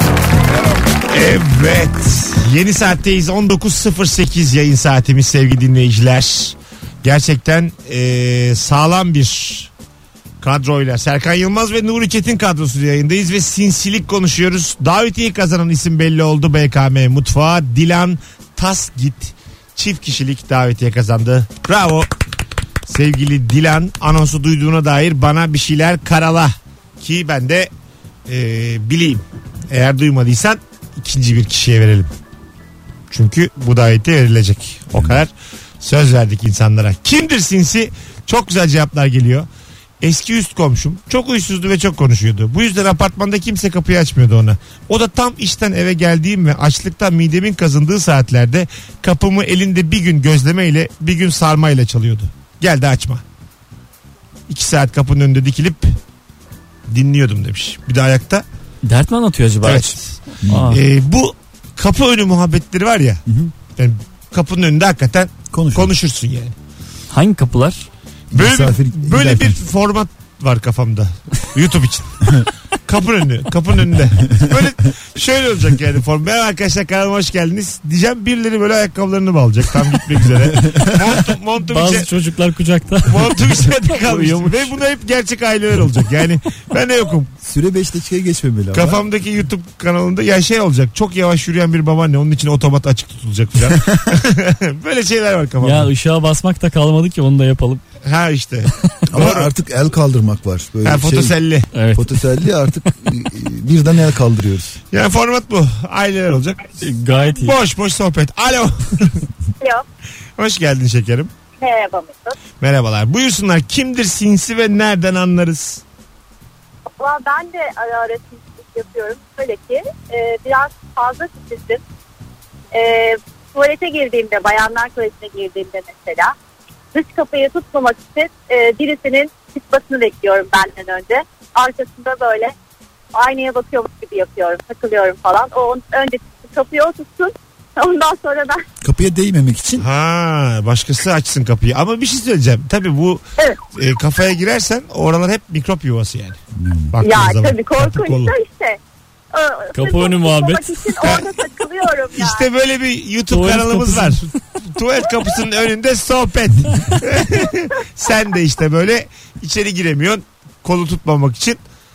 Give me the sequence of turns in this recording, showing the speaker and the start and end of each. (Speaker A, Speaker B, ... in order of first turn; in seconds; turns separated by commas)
Speaker A: 1.1-9.7, Speaker A: 10.4-22.1, Speaker A: 22.9-27.7, Speaker A: 28.3-32.1, Speaker A: 33.1-35.3, Speaker B: 34.9-35.2, Speaker A: 35.8-39.5, Speaker A: 40.0-53.2, Speaker A: 54.5-55.9, Speaker A: 56.9-58.4, Speaker C: 58.8-60.8, Speaker A: 59.6-60.1, Speaker B: 60.4-60.8, Speaker A: 60.7-63.2, Speaker B: 63.3-63.5, Speaker A: 63.8-66.5, Speaker B: 65.5-65.9, Speaker C: 67.1-67.9, Speaker B: 68.3-69.6, Speaker A: 68.3-82.1, Speaker B: 80.5-80.9, Speaker C: 81.6-84.8, Speaker A: 83.0-87.3, Speaker B: 87.4-89.0, Speaker A: 88.7-95.9, Speaker B: 93.7-94.2, Speaker C: 95.6-97.8, Speaker A: 98.0-99.5, Speaker B: 99.1-101.3, Speaker A: 100.8-101.7, Speaker C: 101.7-102.2, Speaker B: 102.0-104.8, Speaker A: 104.9-106.8, Speaker C: 106.8-107.6, Speaker A: 107.3-109.2, Speaker A: 110.4-111.3, Speaker D: 111.6-112.4, Speaker A: 112.6-115.8, Speaker D: 117.0-121.8, Speaker D: 122.7-126.3, Speaker D: 126.9-132.5, Speaker D: 133.1-138.6, Speaker B: 138.8-139.9, Speaker A: 139.8-143.2, Speaker A: 143.7-146.4, Speaker B: 146.6-146.9, Speaker A: 146.9-148.3, Speaker D: 147.0-148.8, Speaker D: 149.3-152.4, Speaker C: 149.7-150.8, Speaker A: 151.0-151.3, Speaker A: 152.2-161.6, Speaker C: 153.3-154.2